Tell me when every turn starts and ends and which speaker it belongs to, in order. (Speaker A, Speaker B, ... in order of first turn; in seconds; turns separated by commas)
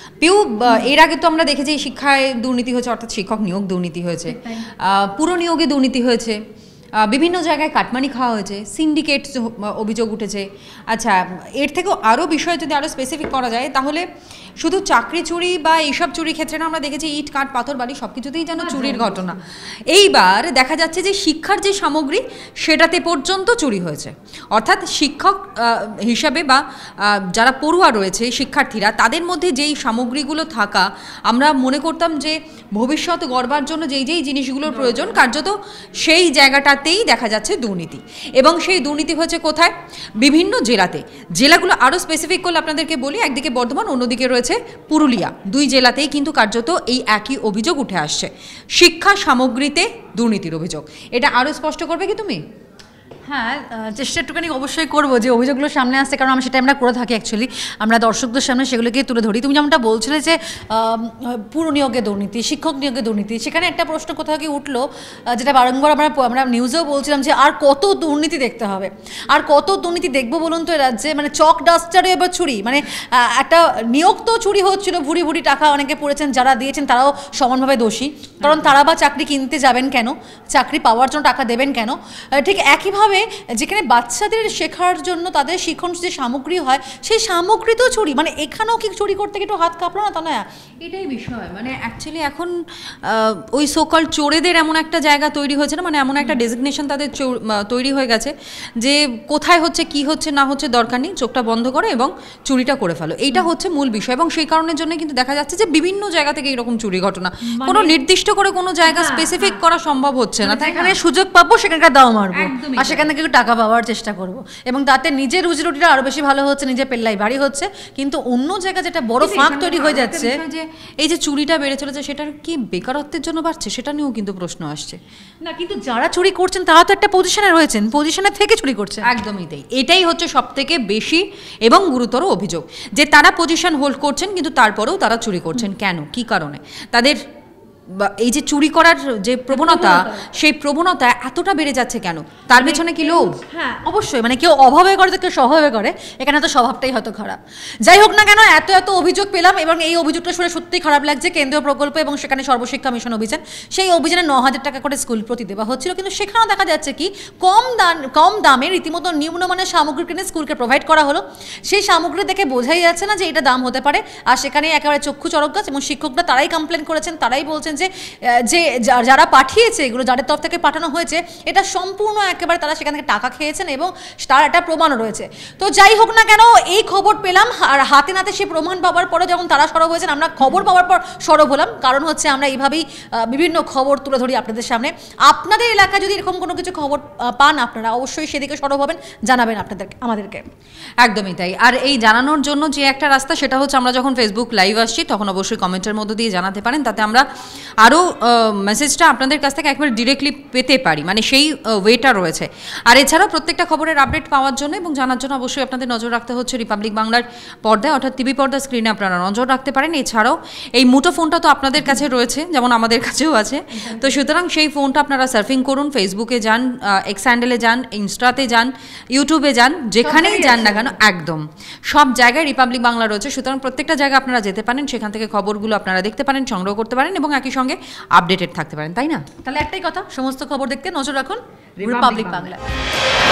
Speaker A: 0.2-6.4, Speaker A: 7.0-14.1, Speaker A: 14.6-52.4, Speaker B: 18.6-19.4, Speaker B: 53.3-90.4, Speaker A: 90.8-111.0, Speaker B: 107.6-107.9, Speaker B: 108.8-109.6, Speaker B: 110.4-120.4, Speaker A: 112.3-113.1, Speaker A: 119.2-125.0, Speaker B: 125.5-129.1, Speaker A: 129.1-137.2, Speaker A: 137.9-143.4, Speaker B: 139.5-140.3, Speaker B: 142.5-190.4, Speaker A: 191.0-197.2, Speaker A: 197.8-229.2, Speaker B: 213.8-214.1, Speaker B: 220.0-221.0, Speaker B: 229.4-232.6, Speaker A: 231.8-232.5